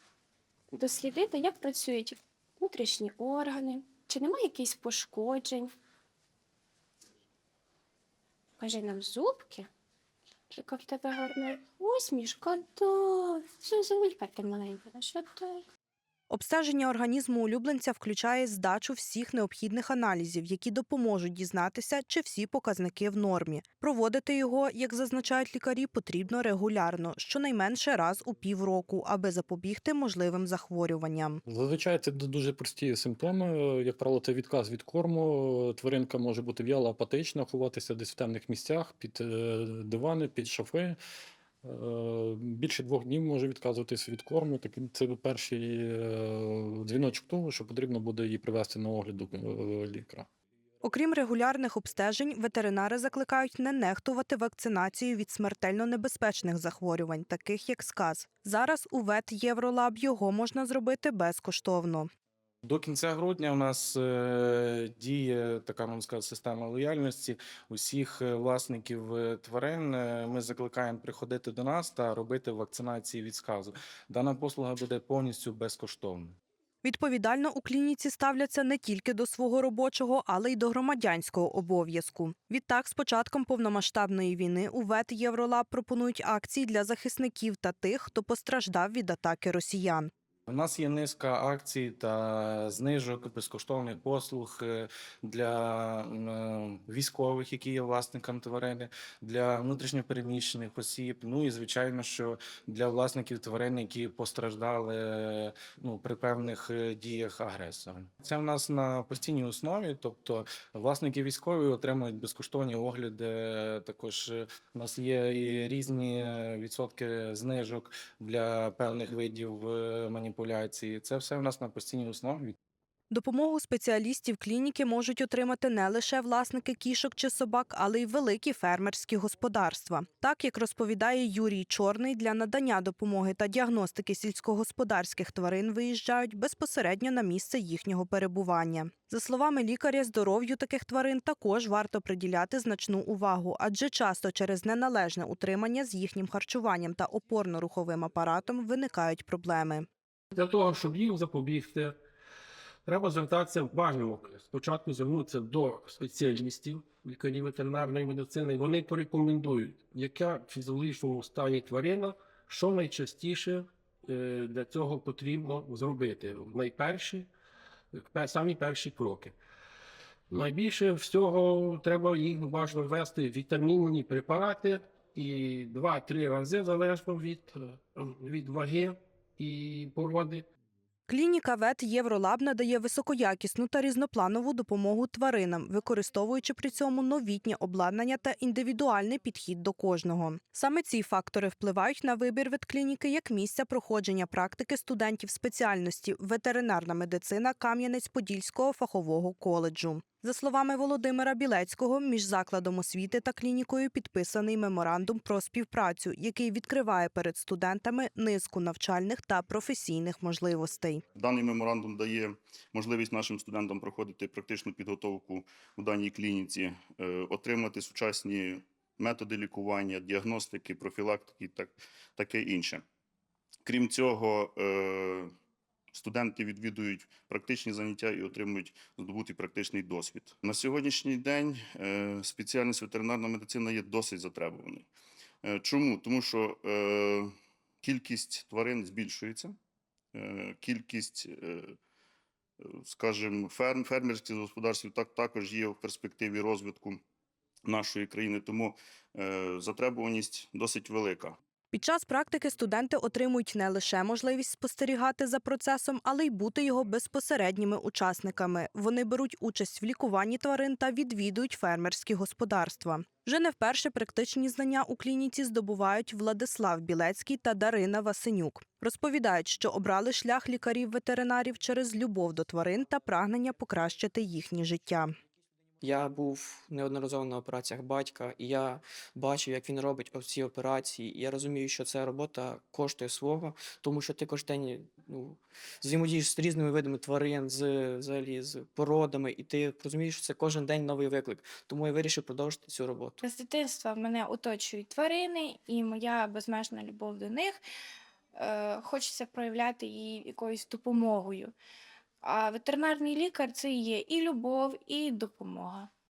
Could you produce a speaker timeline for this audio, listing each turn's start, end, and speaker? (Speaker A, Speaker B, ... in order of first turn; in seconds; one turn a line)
Speaker A: 0.7-5.7
Speaker A: 8.6-9.7
Speaker A: 10.5-15.6
Speaker B: 16.3-31.4
Speaker C: 31.4-41.0
Speaker C: 41.6-50.3
Speaker B: 50.8-62.1
Speaker D: 62.6-76.4
Speaker B: 76.8-90.1
Speaker D: 90.5-122.5
Speaker B: 123.1-149.9
Speaker E: 150.3-152.0
Speaker E: 152.8-167.3
Speaker E: 167.9-169.4
Speaker E: 170.3-180.4
Speaker B: 181.1-211.0
Speaker F: 211.2-222.8
Speaker F: 223.7-225.3
Speaker F: 225.9-234.9
Speaker F: 235.4-237.3
Speaker F: 237.8-239.6
Speaker F: 240.1-241.8
Speaker F: 242.6-247.0
Speaker F: 247.7-251.4
Speaker B: 251.7-275.1
Speaker G: 275.8-293.2
Speaker A: 293.2-297.6
Speaker A: 298.4-301.5
Speaker A: 302.2-305.9